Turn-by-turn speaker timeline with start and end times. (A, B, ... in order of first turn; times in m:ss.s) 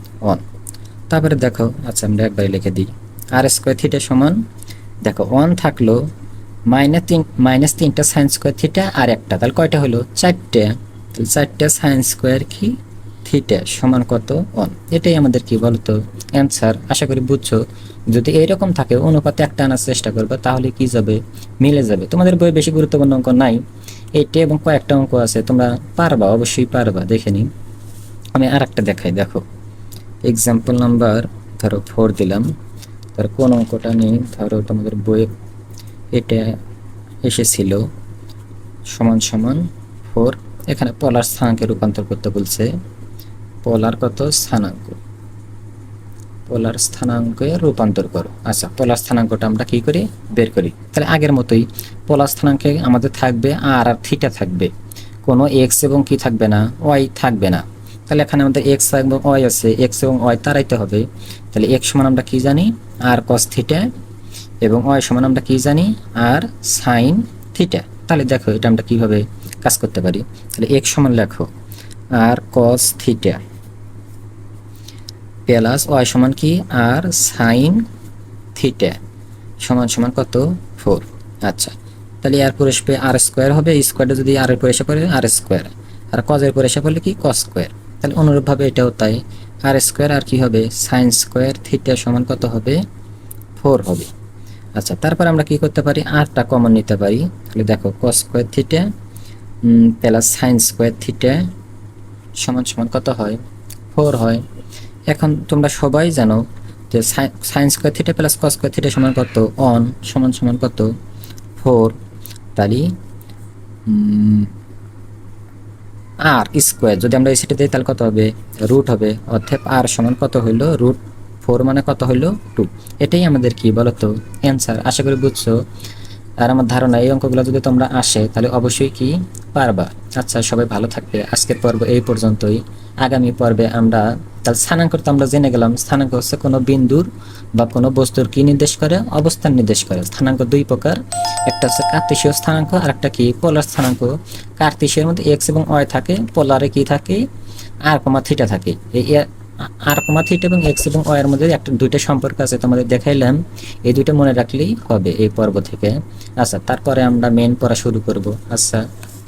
0:01.1-0:04.4 A
0:05.0-0:06.0 A
0:06.7-0:23.6 A
0:24.1-0:27.5 A
0:28.3-0:29.4 A
0:30.2-0:32.5 A
0:33.2-0:35.3 A
0:36.1-0:36.6 A
0:37.2-0:37.9 A
0:38.9-0:42.7 A
0:43.6-0:45.0 A
0:46.5-0:54.7 A
0:55.2-1:03.9 A
1:04.6-1:11.5 A
1:12.1-1:13.4 A
1:15.5-1:17.8 A
1:18.5-1:19.0 A
1:19.6-1:32.8 A
1:33.6-1:34.1 A
1:34.8-1:38.9 A
1:39.6-1:41.4 A
1:42.4-1:43.4 A
1:43.9-1:44.4 A
1:45.1-1:50.9 A
1:51.6-1:52.0 A
1:52.6-1:52.9 A
1:53.9-1:54.5 A
1:56.3-2:05.6 A
2:06.4-2:27.2 A
2:27.8-2:38.8 A